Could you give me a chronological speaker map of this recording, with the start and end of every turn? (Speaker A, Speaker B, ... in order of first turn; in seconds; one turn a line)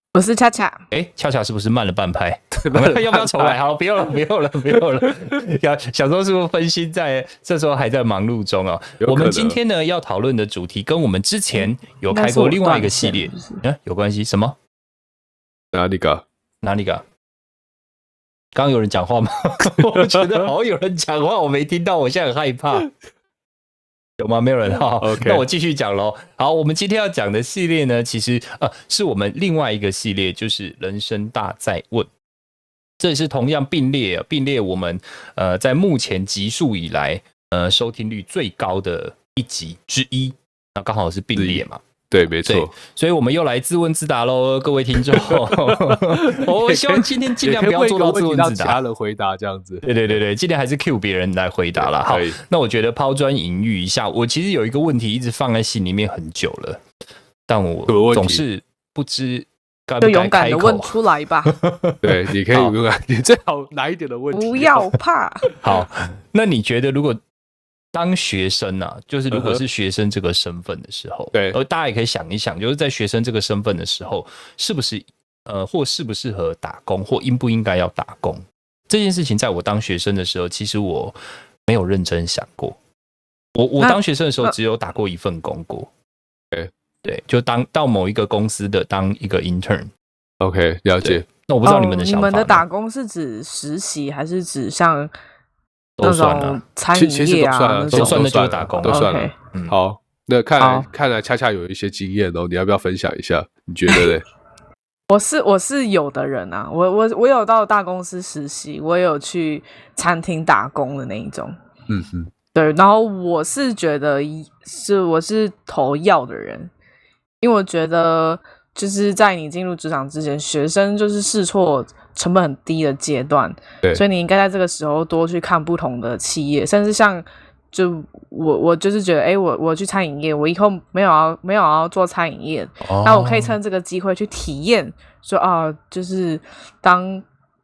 Speaker A: 0.1-0.8
Speaker B: 0.9-14.6
Speaker C: 2.5-3.6
Speaker C: 4.7-5.2
Speaker C: 9.0-9.6
Speaker A: 12.1-13.6
Speaker C: 15.7-16.2
Speaker B: 16.6-17.0
Speaker B: 18.5-22.9
Speaker C: 19.8-20.5
Speaker B: 24.2-32.1
Speaker C: 24.9-25.4
Speaker B: 33.0-41.8
Speaker C: 41.4-42.7
Speaker B: 42.5-48.8
Speaker C: 45.1-49.9
Speaker B: 49.8-56.8
Speaker C: 51.8-52.4
Speaker B: 57.5-62.7
Speaker C: 57.9-58.4
Speaker A: 60.0-61.5
Speaker C: 62.0-64.9
Speaker A: 64.3-65.5
Speaker B: 65.6-67.2
Speaker B: 67.9-82.8
Speaker C: 69.3-69.6
Speaker B: 83.5-85.9
Speaker A: 83.8-84.5
Speaker B: 87.0-89.9
Speaker C: 90.4-91.2
Speaker B: 91.0-92.6
Speaker A: 91.6-95.1
Speaker B: 96.0-96.6
Speaker A: 96.0-98.3
Speaker C: 96.9-104.2
Speaker B: 97.9-99.8
Speaker A: 98.8-99.3
Speaker A: 100.6-100.9
Speaker A: 105.1-111.5
Speaker C: 111.9-112.3
Speaker A: 112.5-116.7
Speaker A: 117.4-137.2
Speaker B: 132.8-133.5